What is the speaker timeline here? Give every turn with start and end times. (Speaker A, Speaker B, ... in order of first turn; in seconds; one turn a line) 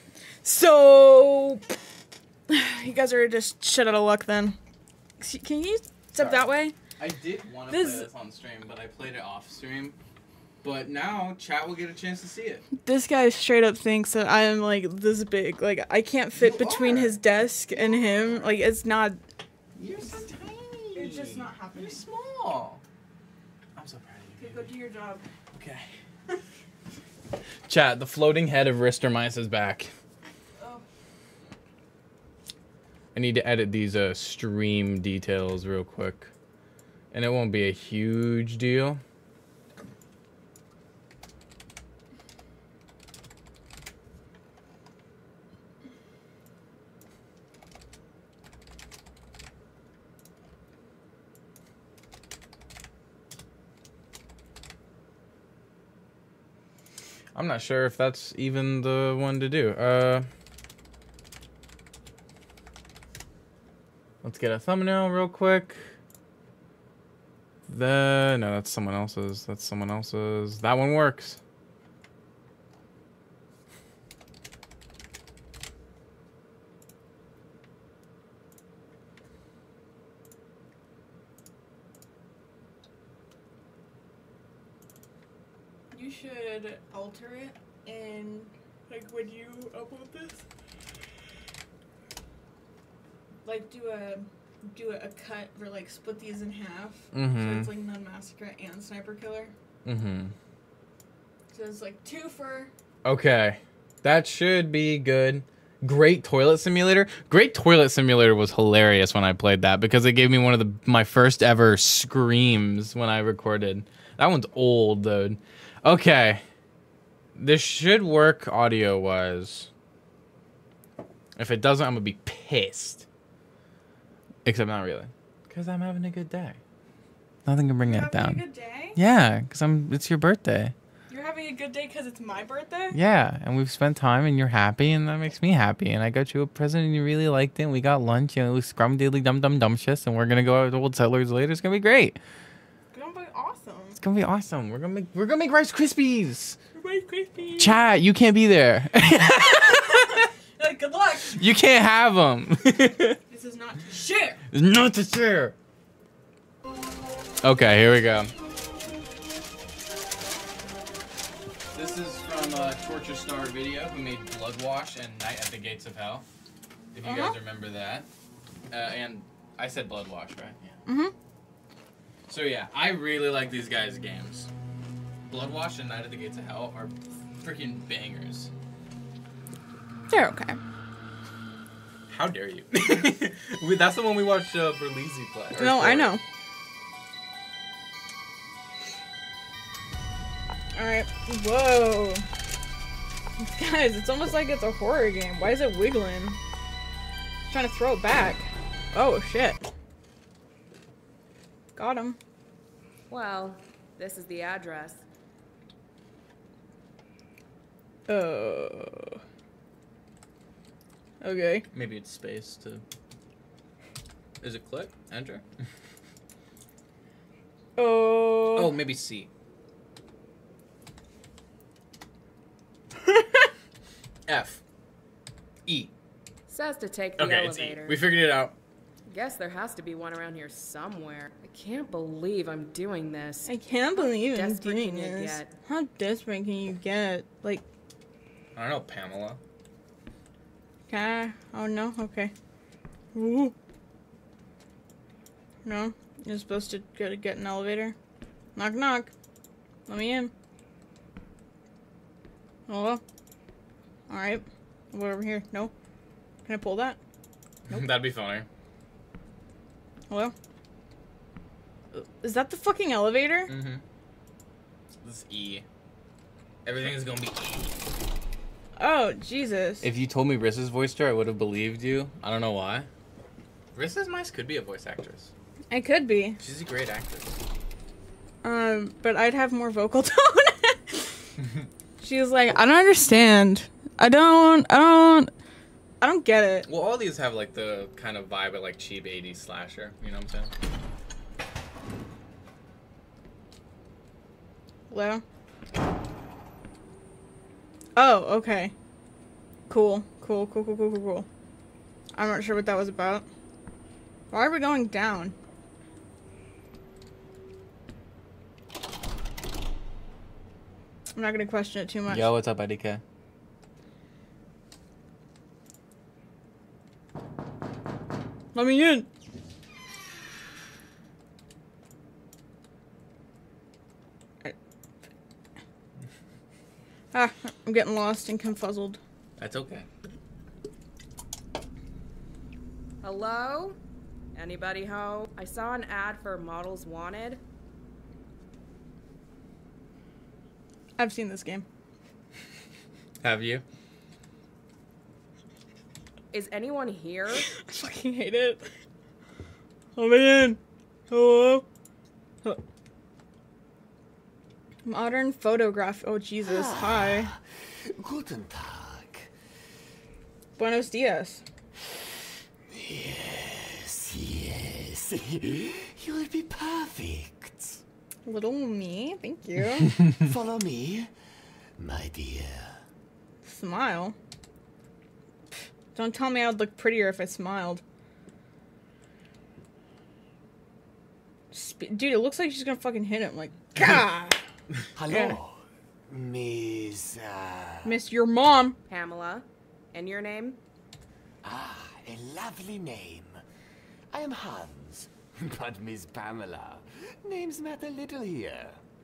Speaker A: 0.4-1.6
Speaker A: 2.5-4.6
Speaker A: 5.2-6.8
Speaker B: 6.2-10.0
Speaker A: 7.7-8.1
Speaker B: 10.6-12.6
Speaker A: 12.8-19.2
Speaker B: 16.3-18.6
Speaker B: 19.7-22.8
Speaker A: 20.9-22.1
Speaker B: 23.8-24.7
Speaker A: 24.4-25.2
Speaker B: 25.5-25.9
Speaker B: 27.7-29.9
Speaker A: 30.6-30.8
Speaker B: 33.1-36.3
Speaker B: 37.1-39.0
Speaker B: 57.3-60.3
Speaker B: 64.2-65.9
Speaker B: 67.7-71.4
Speaker A: 85.9-90.4
Speaker A: 93.4-99.5
Speaker B: 97.1-97.7
Speaker B: 99.8-100.3
Speaker A: 101.5-102.7
Speaker B: 103.0-116.4
Speaker B: 117.3-119.7
Speaker B: 121.3-123.1
Speaker B: 124.4-126.6
Speaker B: 127.4-128.4
Speaker A: 127.8-129.0
Speaker B: 128.9-130.7
Speaker A: 131.1-133.0
Speaker B: 132.9-142.2
Speaker A: 142.9-144.0
Speaker B: 144.0-146.6
Speaker A: 146.7-147.8
Speaker B: 147.6-150.3
Speaker A: 149.6-151.4
Speaker B: 151.2-153.2
Speaker A: 153.3-154.4
Speaker B: 154.5-155.5
Speaker B: 157.4-158.3
Speaker B: 161.7-166.2
Speaker B: 166.9-168.1
Speaker A: 167.0-167.4
Speaker B: 168.7-170.8
Speaker A: 170.8-171.1
Speaker B: 172.3-174.5
Speaker B: 175.2-178.5
Speaker A: 180.1-180.6
Speaker B: 182.1-186.2
Speaker A: 185.6-186.2
Speaker A: 190.7-192.2
Speaker A: 193.4-196.4
Speaker A: 197.5-199.6
Speaker A: 201.8-202.2
Speaker C: 203.1-205.0
Speaker A: 208.1-209.2
Speaker A: 211.2-211.7
Speaker B: 211.7-212.8
Speaker B: 214.4-215.4
Speaker A: 217.8-218.7
Speaker B: 218.5-219.3
Speaker B: 224.3-224.6
Speaker B: 225.7-225.9
Speaker C: 226.5-228.0
Speaker B: 227.2-228.5
Speaker C: 229.1-235.5
Speaker A: 233.4-237.6
Speaker B: 238.5-239.4
Speaker A: 240.9-242.3
Speaker A: 243.1-243.5
Speaker A: 245.6-247.9
Speaker A: 248.6-249.1
Speaker A: 249.9-250.3
Speaker A: 252.7-253.0
Speaker A: 254.1-255.7
Speaker A: 256.4-257.0
Speaker B: 257.7-258.5
Speaker A: 261.9-263.5
Speaker B: 263.5-263.8
Speaker B: 265.0-265.6
Speaker B: 266.6-267.9
Speaker A: 268.8-269.9
Speaker B: 269.8-272.9
Speaker B: 273.7-275.3
Speaker A: 275.7-276.4
Speaker B: 276.4-277.4
Speaker A: 278.4-281.3
Speaker A: 282.0-285.3
Speaker A: 286.0-286.7
Speaker B: 286.7-290.5
Speaker A: 294.9-295.2
Speaker A: 297.9-298.7
Speaker A: 299.7-301.3
Speaker A: 302.1-303.2
Speaker A: 304.3-305.3
Speaker A: 311.1-312.3
Speaker B: 312.1-313.0
Speaker A: 318.5-319.1
Speaker A: 327.1-329.0
Speaker B: 329.4-329.9
Speaker C: 333.0-333.8
Speaker C: 334.3-337.4
Speaker A: 341.0-341.6
Speaker B: 343.2-343.6
Speaker C: 346.3-347.5
Speaker A: 347.5-348.7
Speaker A: 349.9-350.6
Speaker A: 351.1-351.6
Speaker A: 354.8-357.3
Speaker D: 356.4-359.3
Speaker A: 360.6-361.4
Speaker D: 362.7-367.8
Speaker A: 368.2-369.9
Speaker D: 370.1-371.1
Speaker D: 371.8-372.8
Speaker A: 373.4-374.1
Speaker A: 375.9-377.8
Speaker A: 381.5-384.4
Speaker D: 384.9-388.0
Speaker A: 385.1-385.3
Speaker A: 387.8-388.8
Speaker C: 388.9-390.6
Speaker D: 391.4-393.4
Speaker D: 394.1-398.8